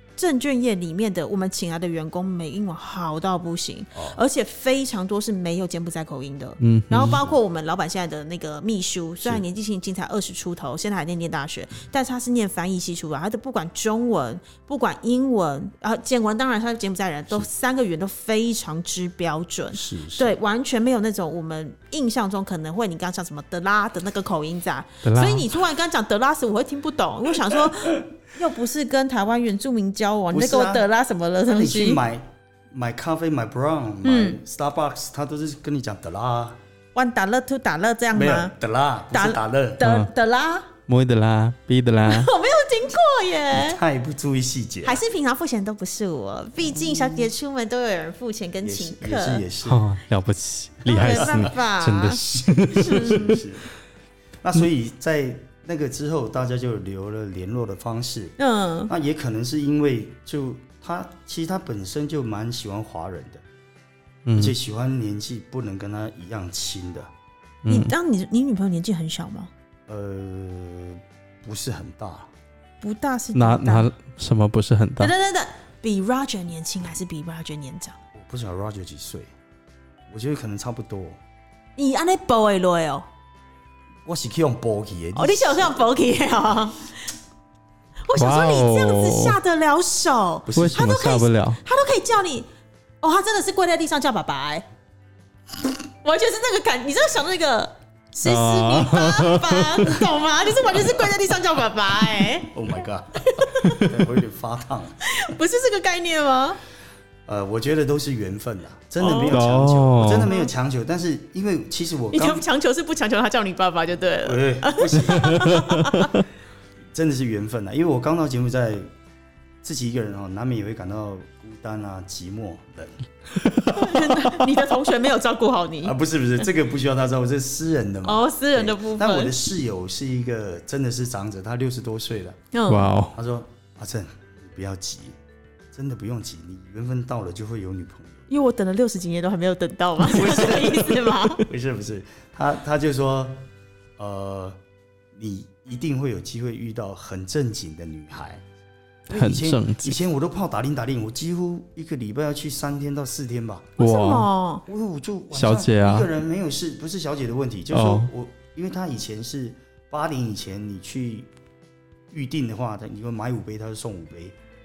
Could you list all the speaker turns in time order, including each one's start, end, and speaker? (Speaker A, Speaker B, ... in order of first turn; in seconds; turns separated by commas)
Speaker A: 0.2-32.0, Speaker B: 3.9-4.2, Speaker C: 6.6-7.2, Speaker B: 7.0-7.3, Speaker B: 19.7-20.3, Speaker C: 25.0-25.5, Speaker B: 30.3-30.9, Speaker B: 31.4-36.6, Speaker A: 34.0-34.4, Speaker A: 36.9-38.5, Speaker B: 38.1-39.8, Speaker A: 39.1-40.7, Speaker C: 39.8-40.1, Speaker C: 40.9-42.3, Speaker A: 42.0-43.8, Speaker B: 43.5-45.0, Speaker A: 44.8-49.4, Speaker B: 46.7-47.3, Speaker B: 48.6-49.8, Speaker C: 49.6-53.4, Speaker A: 50.9-52.2, Speaker B: 50.9-51.5, Speaker B: 52.7-53.6, Speaker A: 52.7-53.4, Speaker B: 54.4-58.4, Speaker A: 58.4-58.9, Speaker B: 58.9-63.4, Speaker C: 64.2-64.5, Speaker B: 64.3-67.1, Speaker C: 67.6-67.9, Speaker A: 67.7-69.5, Speaker B: 69.9-72.3, Speaker A: 72.8-73.9, Speaker C: 73.3-75.1, Speaker A: 75.0-78.0, Speaker B: 78.1-79.3, Speaker B: 80.1-81.2, Speaker A: 81.8-83.0, Speaker B: 84.0-85.8, Speaker A: 85.1-86.9, Speaker A: 88.0-92.5, Speaker C: 88.2-89.4, Speaker B: 90.4-90.9, Speaker C: 90.5-91.6, Speaker A: 93.0-94.6, Speaker A: 96.0-102.5, Speaker C: 98.2-99.9, Speaker B: 102.5-103.3, Speaker A: 103.2-103.9, Speaker C: 103.6-103.9, Speaker B: 103.8-104.9, Speaker A: 105.0-106.6, Speaker B: 107.2-112.4, Speaker A: 109.0-109.4, Speaker C: 109.3-110.3, Speaker A: 110.2-110.5, Speaker A: 112.1-116.1, Speaker B: 114.2-115.5, Speaker B: 116.9-118.9, Speaker B: 119.6-123.0, Speaker A: 123.7-126.0, Speaker B: 125.8-132.4, Speaker A: 128.0-129.3, Speaker A: 132.5-132.9, Speaker C: 132.7-133.2, Speaker B: 133.1-135.2, Speaker B: 135.7-138.3, Speaker A: 138.3-141.4, Speaker B: 140.0-144.6, Speaker B: 145.1-148.4, Speaker C: 149.1-150.0, Speaker B: 149.1-153.8, Speaker C: 153.8-154.3, Speaker A: 153.8-154.6, Speaker B: 154.7-161.3, Speaker C: 155.3-156.1, Speaker C: 157.7-158.1, Speaker B: 162.1-164.3